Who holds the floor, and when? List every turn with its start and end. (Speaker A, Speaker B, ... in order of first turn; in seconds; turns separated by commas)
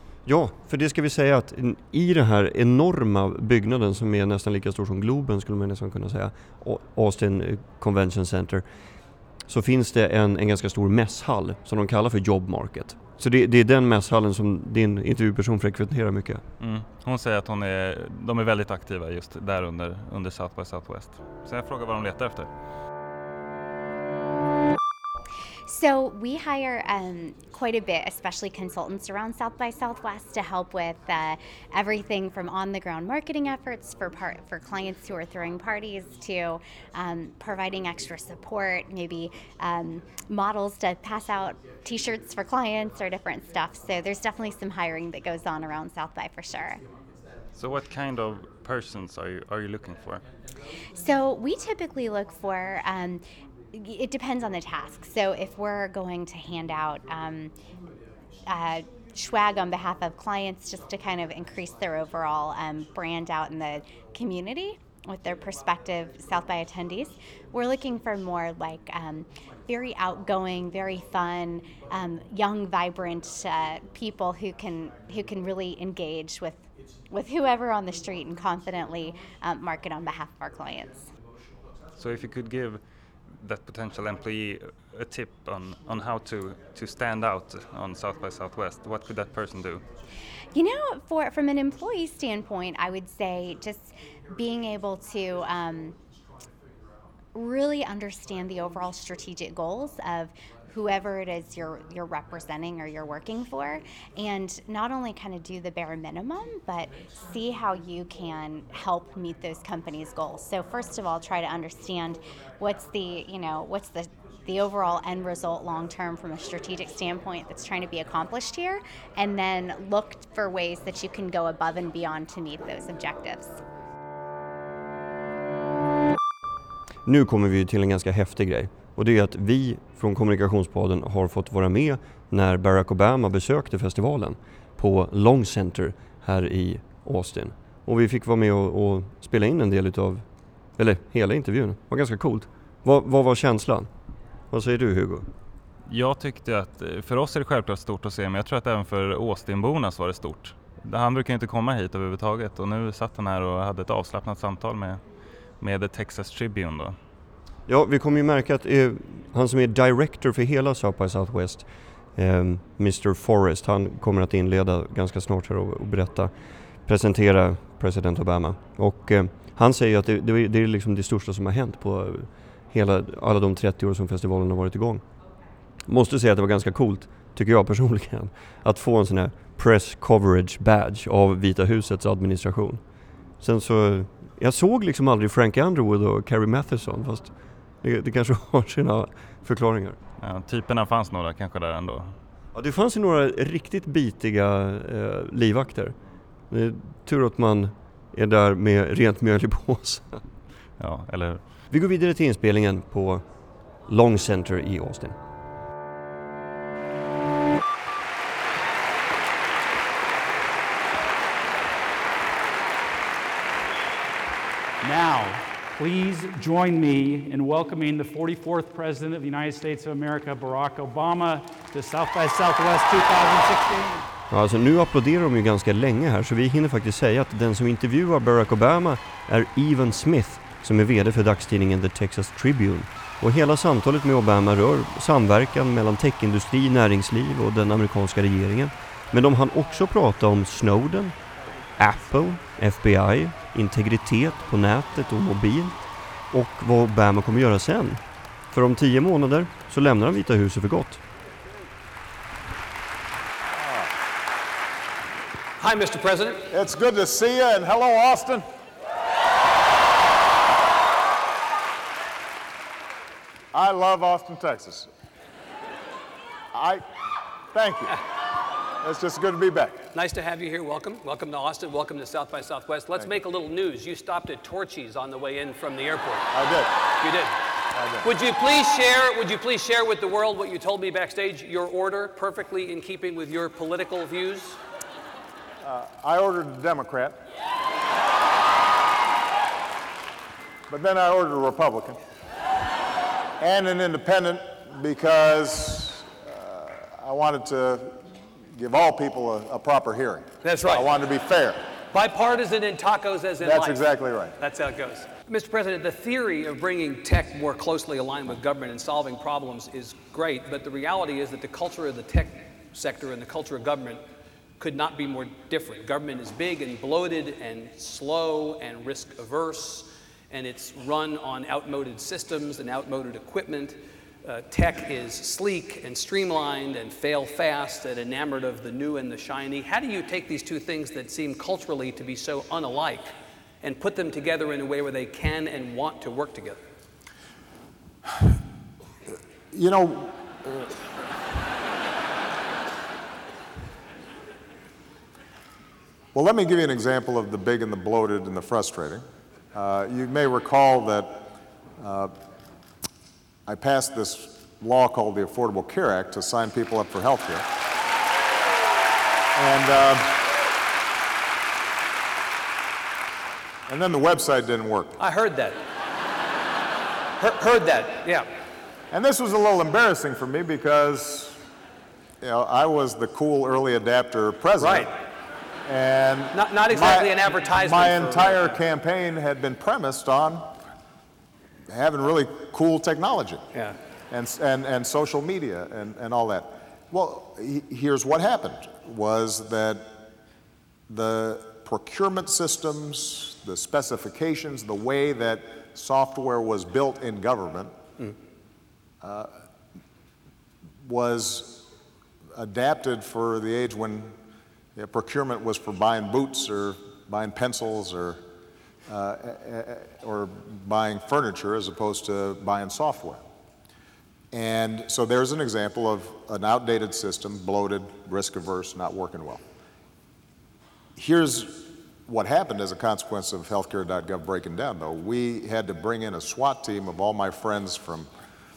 Speaker A: 0.2-16.4, Speaker B: 16.6-22.5, Speaker C: 25.7-46.8, Speaker B: 47.5-50.2, Speaker C: 51.0-57.5, Speaker C: 58.5-81.0, Speaker B: 82.0-82.8, Speaker B: 83.4-89.8, Speaker C: 90.5-95.9, Speaker C: 97.3-123.5, Speaker A: 127.0-143.9, Speaker A: 144.5-145.3, Speaker B: 145.9-155.0, Speaker B: 155.6-156.9, Speaker A: 157.7-175.0, Speaker A: 175.8-190.0, Speaker B: 190.2-192.1, Speaker A: 192.5-200.2, Speaker B: 200.8-201.4, Speaker A: 201.7-205.2, Speaker D: 214.8-224.1, Speaker A: 224.3-241.2, Speaker A: 241.7-251.0, Speaker E: 253.6-253.9, Speaker F: 255.6-256.4, Speaker E: 256.5-258.4, Speaker E: 263.5-264.9, Speaker E: 266.5-266.8, Speaker E: 267.5-268.0, Speaker E: 268.8-269.9, Speaker F: 269.9-276.4, Speaker E: 276.3-276.8, Speaker F: 276.9-277.3, Speaker E: 277.7-278.1, Speaker F: 278.0-284.6, Speaker E: 285.6-287.2, Speaker E: 290.7-292.0, Speaker E: 293.4-301.6, Speaker F: 300.4-300.9, Speaker F: 301.8-314.1, Speaker E: 303.4-304.4, Speaker F: 314.6-336.6, Speaker E: 339.5-340.7, Speaker E: 346.1-352.1, Speaker E: 353.4-357.5, Speaker E: 359.3-360.2, Speaker E: 363.7-364.9, Speaker F: 365.0-365.6, Speaker F: 367.2-368.3, Speaker E: 368.9-371.4, Speaker E: 372.2-374.9, Speaker F: 374.6-374.9, Speaker E: 375.6-380.5, Speaker F: 376.3-378.6, Speaker E: 381.7-383.5, Speaker F: 383.5-383.8, Speaker E: 384.1-390.1, Speaker E: 390.9-397.7, Speaker E: 399.0-399.4, Speaker E: 400.8-401.7, Speaker E: 402.3-404.1, Speaker E: 404.8-408.2, Speaker E: 408.9-413.2, Speaker E: 414.3-419.4, Speaker E: 420.9-428.1